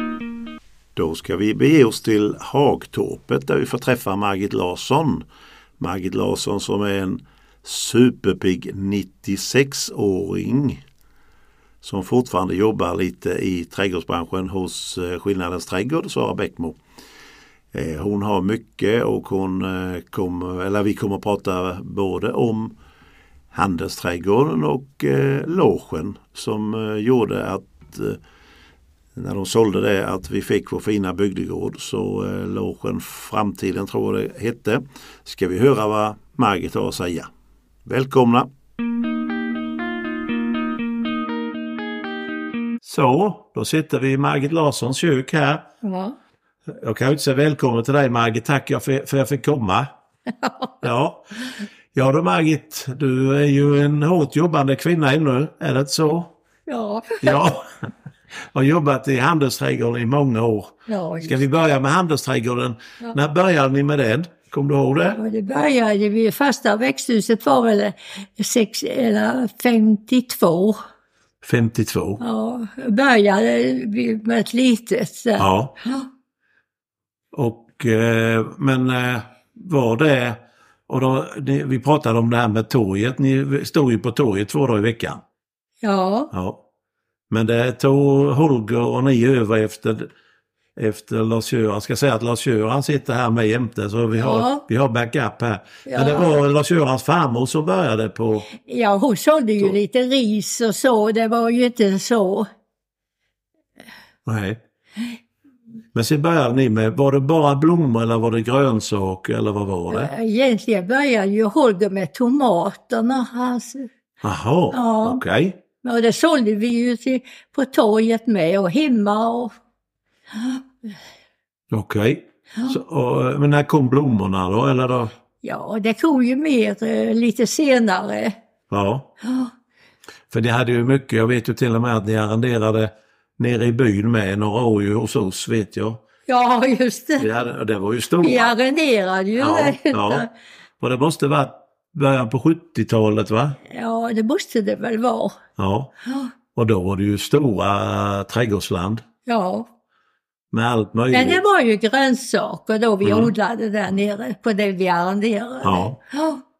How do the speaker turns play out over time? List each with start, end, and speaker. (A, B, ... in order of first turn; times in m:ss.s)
0:01.0-0:05.2 A
0:05.8-0:10.8 A
0:11.8-0:16.8 A
0:17.7-0:22.8 A
0:23.5-0:28.2 A
0:29.2-0:37.3 A
0:37.8-0:38.5 A
0:42.8-0:45.6 A
0:45.8-0:46.2 B
0:46.7-0:49.9 A
0:50.4-0:50.9 B
0:50.8-0:51.3 A
0:51.9-0:56.3 A
0:56.7-0:57.4 B
0:57.2-0:57.7 A
0:58.5-1:05.2 A
1:00.9-1:01.4 B
1:05.1-1:10.8 B
1:11.4-1:12.2 A
1:12.2-1:16.1 B
1:15.4-1:15.7 A
1:17.3-1:25.2 A
1:25.8-1:26.3 B
1:26.3-1:26.6 A
1:27.3-1:30.1 A
1:30.8-1:38.5 A
1:34.2-1:34.6 B
1:35.8-1:36.3 B
1:38.5-1:42.5 B
1:44.2-1:44.6 A
1:45.9-1:50.1 A
1:49.9-1:53.9 B
1:54.2-1:55.6 A
1:54.7-1:55.2 B
1:55.8-1:59.5 B
2:00.3-2:00.6 B
2:01.7-2:05.1 A
2:05.4-2:08.4 B
2:08.7-2:09.1 A
2:09.2-2:09.5 B
2:10.3-2:16.0 A
2:16.3-2:17.3 B
2:17.2-2:18.5 A
2:18.2-2:20.3 B
2:19.4-2:20.2 A
2:20.8-2:23.6 A
2:23.6-2:25.4 B
2:25.6-2:25.9 A
2:26.0-2:26.3 B
2:26.6-2:29.0 A
2:29.2-2:29.7 B
2:30.5-2:31.4 A
2:31.1-2:36.4 B
2:33.0-2:33.3 A
2:35.6-2:36.0 A